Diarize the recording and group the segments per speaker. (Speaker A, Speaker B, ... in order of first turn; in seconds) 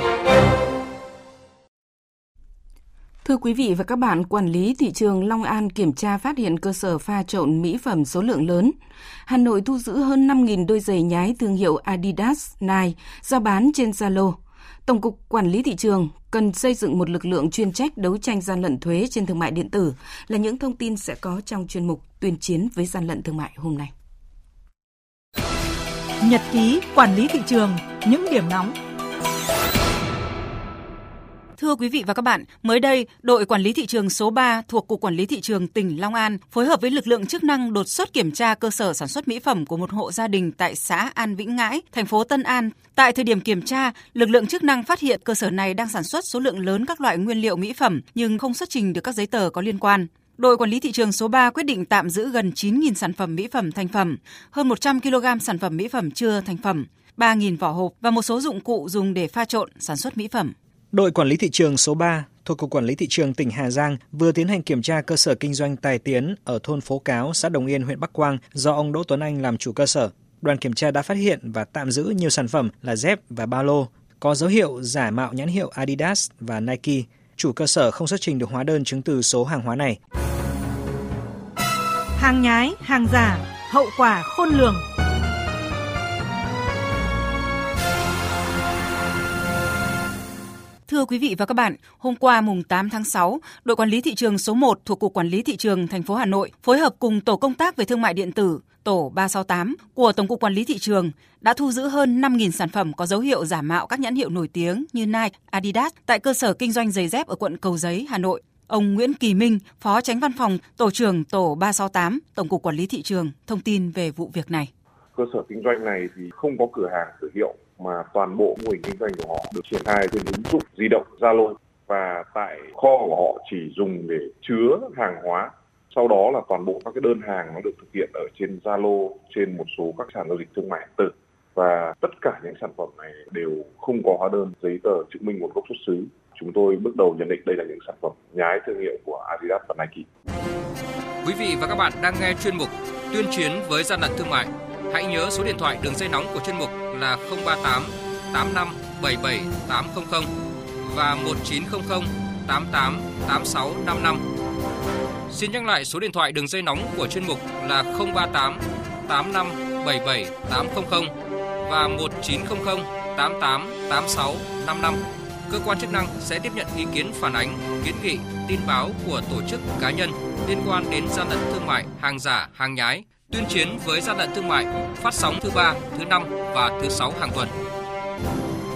Speaker A: 3.2-8.8, 9.3-23.9
Speaker B: 26.2-28.8, 82.2-84.8
Speaker C: 31.6-60.5, 90.9-114.7
Speaker D: 60.9-80.0
Speaker E: 115.2-140.1
Speaker F: 141.2-150.3, 150.8-154.2, 155.3-161.1, 161.6-177.5